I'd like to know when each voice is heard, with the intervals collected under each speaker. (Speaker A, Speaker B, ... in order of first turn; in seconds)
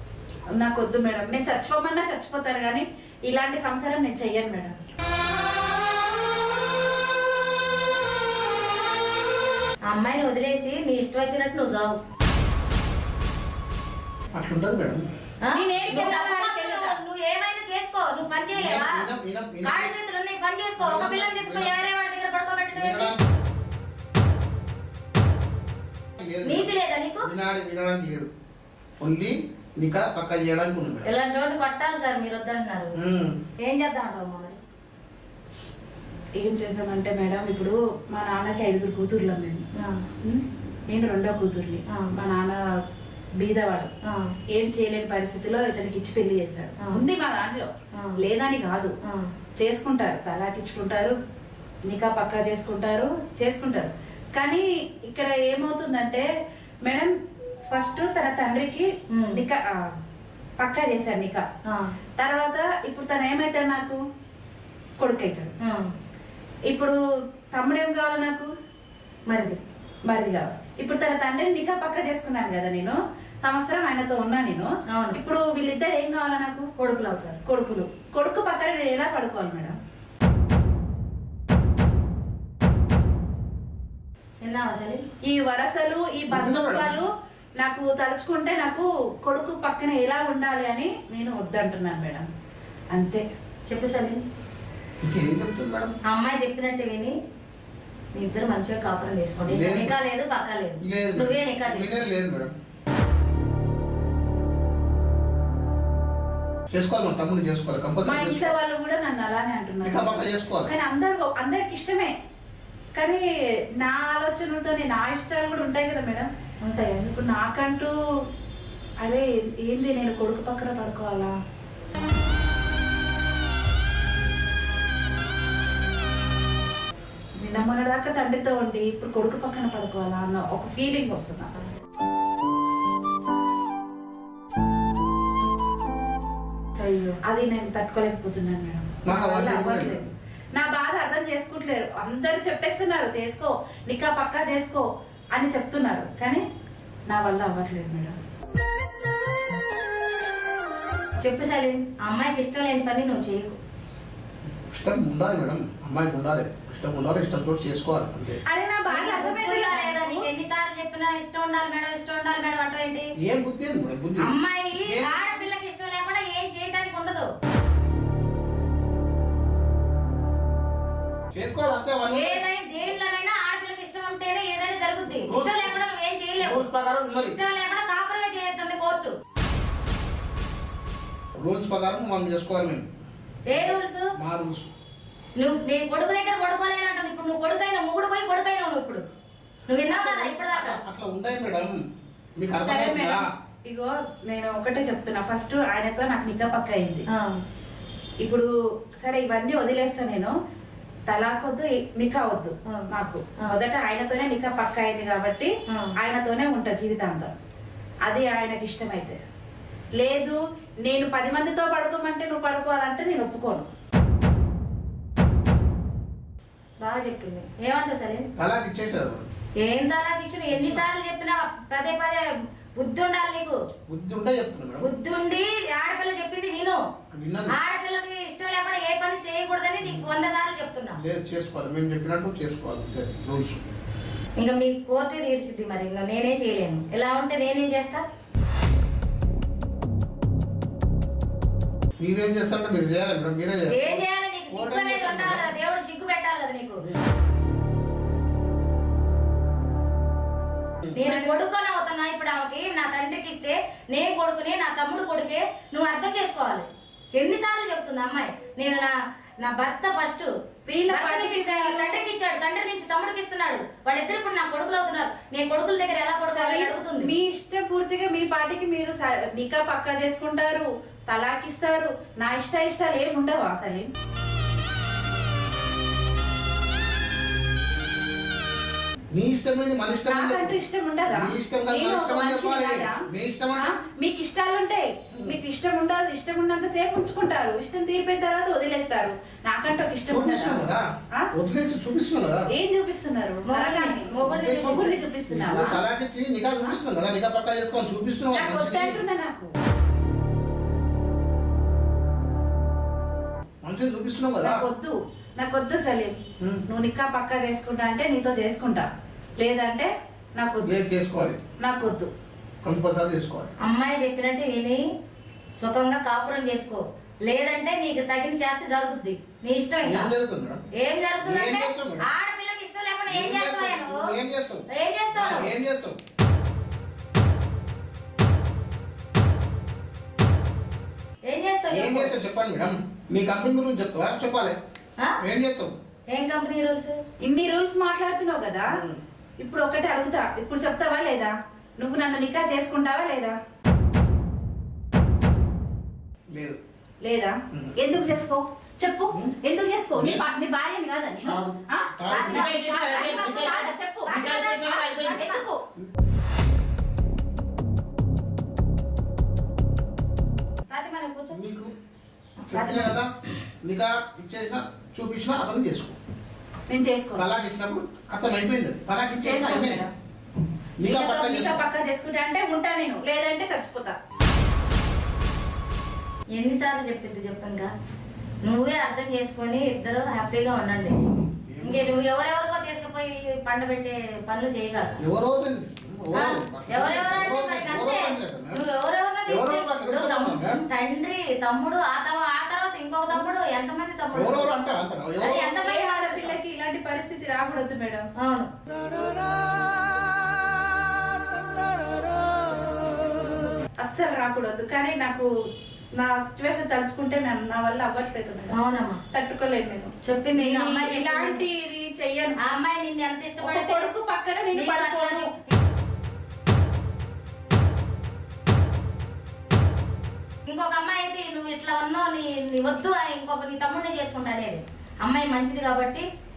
Speaker A: 0.6-4.8, 15.5-17.0, 36.4-39.7, 40.2-42.6, 43.4-43.9, 44.5-49.0, 49.6-51.1, 51.9-56.3, 56.9-57.1, 57.7-59.7, 60.6-61.4, 62.2-64.0, 65.0-65.5, 66.7-67.0, 67.5-68.5, 70.1-76.7, 77.5-79.8, 85.3-87.1, 87.6-92.3, 92.9-93.2, 108.0-112.1, 113.0-113.2, 113.8-116.3, 117.0-117.9, 119.0-121.3, 127.4-131.5, 137.2-146.4, 147.1-148.2, 158.5-160.3, 192.6-197.1, 198.2-198.5, 199.0-200.3, 201.1-207.3, 208.1-209.2, 210.0-213.7, 251.0-251.3, 260.7-262.1, 266.3-273.9, 280.1-283.0, 283.6-291.3, 292.5-295.8, 298.3-299.5, 304.4-310.8, 311.6-312.1, 337.2-338.8, 339.4-343.4, 347.0-354.2, 355.0-355.6, 366.7-367.3, 369.2-369.9, 370.8-374.0, 395.6-398.1, 403.8-405.3, 406.0-408.6, 409.1-412.4, 413.4-415.3
Speaker B: 9.9-12.0, 15.4-19.1, 19.6-23.1, 26.4-27.3, 31.1-33.0, 33.6-34.6, 59.1-59.4, 65.6-65.9, 69.3-69.6, 74.9-75.2, 76.8-77.4, 84.4-85.0, 93.7-94.2, 96.1-97.2, 98.2-102.1, 116.6-117.1, 136.8-137.2, 151.2-153.6, 158.9-163.1, 164.2-167.3, 172.1-176.7, 177.2-179.2, 183.5-184.1, 185.4-189.1, 189.7-190.8, 216.8-218.3, 219.6-223.6, 224.8-226.8, 227.5-231.0, 234.4-238.0, 243.7-246.9, 250.9-260.3, 260.9-267.1, 293.5-295.0, 313.6-314.8, 315.6-320.1, 320.8-324.0, 324.7-325.5, 331.3-332.1, 336.1-337.0, 352.1-355.4, 360.7-361.4, 362.5-362.9, 376.3-377.7, 378.4-381.0, 381.6-385.0, 386.1-394.5, 395.2-396.4, 398.2-398.5, 408.5-409.0, 410.1-411.4, 412.4-413.9, 414.5-415.4, 420.5-426.1
Speaker C: 14.3-15.1, 18.5-19.9, 20.8-21.8, 22.7-23.2, 26.2-28.3, 29.0-31.1, 33.0-33.4, 86.3-87.0, 95.0-96.0, 99.5-100.0, 100.8-102.5, 106.7-108.5, 109.8-110.7, 139.1-140.1, 154.7-158.4, 163.2-165.2, 171.3-172.4, 175.2-175.8, 176.4-177.4, 181.4-182.9, 183.5-184.7, 189.9-191.8, 192.4-193.3, 218.4-219.3, 220.5-220.8, 223.9-224.9, 227.1-227.5, 229.8-230.1, 230.9-233.6, 242.0-245.5, 279.1-280.5, 281.1-283.8, 290.1-292.5, 294.1-299.0, 303.6-304.7, 310.6-311.4, 312.6-313.5, 319.8-320.6, 321.2-322.1, 323.1-326.0, 331.7-334.6, 335.2-335.8, 338.7-339.0, 346.3-346.6, 350.0-350.3, 351.2-355.3, 361.3-361.7, 362.5-363.1, 363.6-366.0, 367.2-369.8, 370.8-371.6, 381.5-381.9, 385.0-388.7, 389.3-390.6, 394.1-395.6